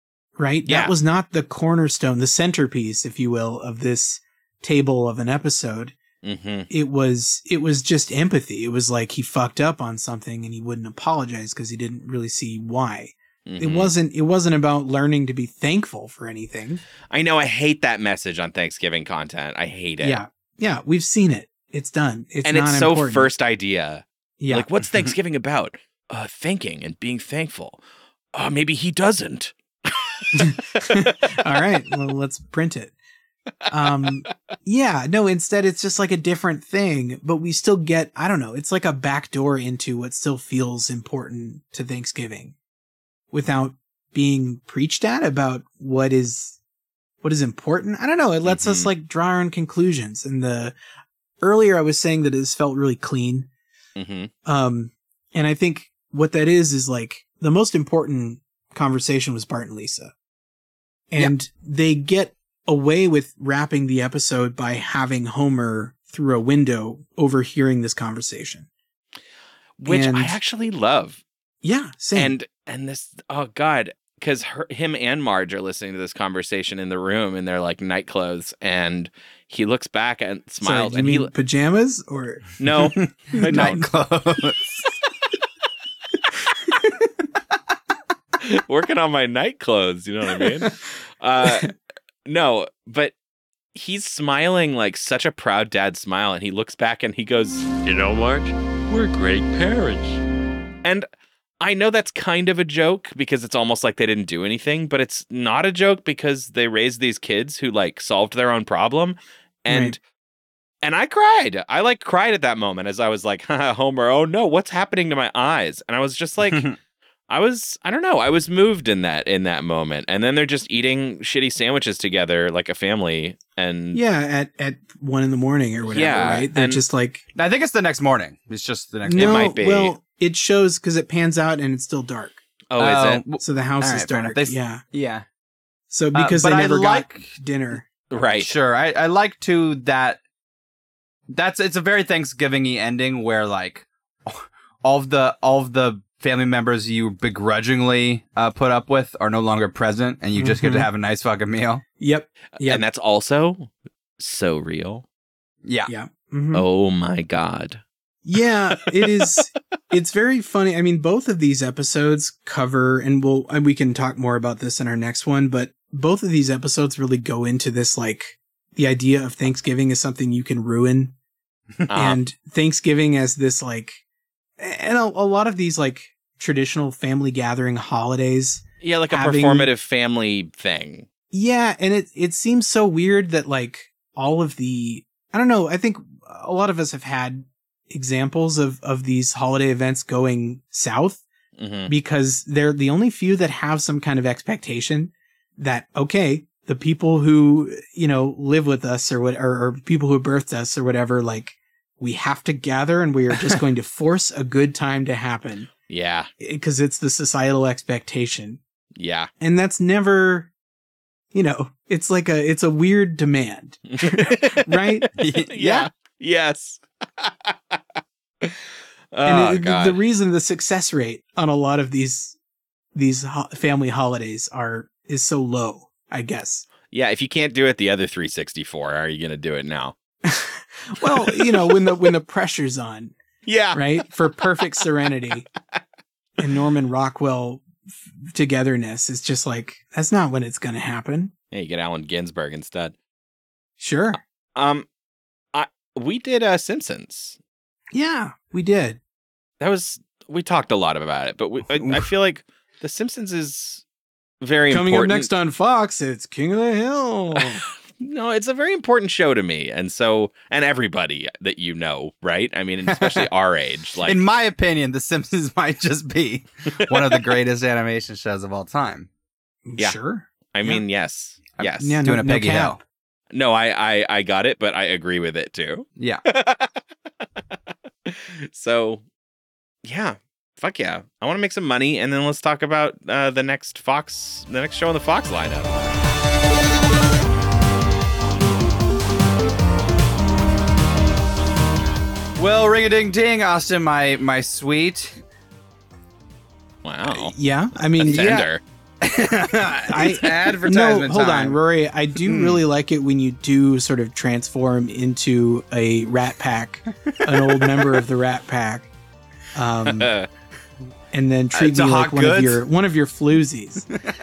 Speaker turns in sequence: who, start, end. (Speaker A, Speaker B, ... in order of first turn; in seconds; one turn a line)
Speaker A: 0.4-6.0
Speaker B: 0.7-0.9
Speaker B: 6.2-6.7
Speaker A: 6.7-16.8
Speaker B: 13.4-13.9
Speaker B: 17.1-20.2
Speaker A: 20.0-23.3
Speaker B: 22.4-27.8
Speaker A: 24.4-24.7
Speaker B: 28.3-29.5
Speaker A: 30.3-32.9
Speaker A: 33.7-42.5
Speaker A: 43.3-46.6
Speaker A: 47.2-50.8
Speaker B: 48.4-48.9
Speaker A: 51.4-53.5
Speaker B: 54.0-54.3
Speaker A: 54.4-60.1
Speaker A: 61.1-68.7
Speaker B: 69.8-71.2
Speaker A: 69.8-70.4
Speaker A: 71.6-72.3
Speaker B: 72.1-81.3
Speaker A: 80.6-82.6
Speaker B: 82.6-83.9
Speaker C: 83.0-84.9
Speaker A: 83.4-83.8
Speaker B: 88.4-91.7
Speaker A: 91.5-91.7
Speaker B: 92.3-93.1
Speaker B: 93.7-97.6
Speaker D: 97.9-100.2
Speaker B: 101.6-110.0
Speaker A: 109.7-110.0
Speaker B: 110.8-116.6
Speaker B: 117.3-124.0
Speaker A: 123.9-127.3
Speaker B: 125.9-126.8
Speaker C: 127.4-129.5
Speaker A: 129.1-132.4
Speaker B: 129.2-129.9
Speaker B: 132.7-133.2
Speaker C: 132.8-135.2
Speaker A: 133.4-134.8
Speaker A: 135.9-137.9
Speaker C: 136.1-137.3
Speaker B: 138.1-138.5
Speaker C: 138.4-140.2
Speaker C: 141.3-151.8
Speaker A: 150.4-150.9
Speaker A: 152.0-152.8
Speaker B: 152.6-155.0
Speaker C: 155.6-155.9
Speaker A: 155.9-156.6
Speaker B: 156.5-157.8
Speaker A: 158.2-171.1
Speaker B: 171.9-172.2
Speaker A: 171.9-174.0
Speaker A: 174.6-179.7
Speaker B: 178.8-181.1
Speaker A: 181.3-191.2
Speaker B: 191.6-191.9
Speaker A: 191.9-205.7
Speaker B: 205.9-206.3
Speaker A: 206.4-208.6
Speaker B: 208.9-209.3
Speaker A: 209.4-210.5
Speaker A: 211.3-215.9
Speaker B: 213.9-217.8
Speaker C: 215.2-215.5
Speaker B: 219.1-220.0
Speaker A: 219.2-222.4
Speaker A: 222.9-226.7
Speaker B: 226.9-229.9
Speaker A: 230.2-233.1
Speaker B: 231.2-231.9
Speaker B: 233.4-234.8
Speaker A: 233.7-235.4
Speaker A: 236.4-241.3
Speaker B: 241.5-242.9
Speaker A: 243.8-244.2
Speaker B: 244.5-244.9
Speaker B: 245.5-247.4
Speaker A: 247.9-249.0
Speaker B: 249.6-253.8
Speaker B: 254.4-255.3
Speaker A: 254.7-257.6
Speaker B: 258.0-264.2
Speaker C: 264.0-269.1
Speaker A: 269.6-270.8
Speaker B: 270.5-272.0
Speaker C: 271.6-272.8
Speaker A: 271.8-272.8
Speaker B: 273.3-276.8
Speaker C: 276.0-276.2
Speaker B: 278.1-279.0
Speaker B: 279.8-285.7
Speaker C: 292.4-295.2
Speaker B: 296.8-297.3
Speaker A: 297.1-298.4
Speaker B: 298.0-298.6
Speaker C: 298.0-298.5
Speaker C: 299.0-301.6
Speaker A: 299.9-308.9
Speaker C: 302.2-302.6
Speaker C: 307.5-307.9
Speaker A: 309.5-310.1
Speaker B: 309.9-310.3
Speaker A: 311.1-313.9
Speaker C: 311.5-312.6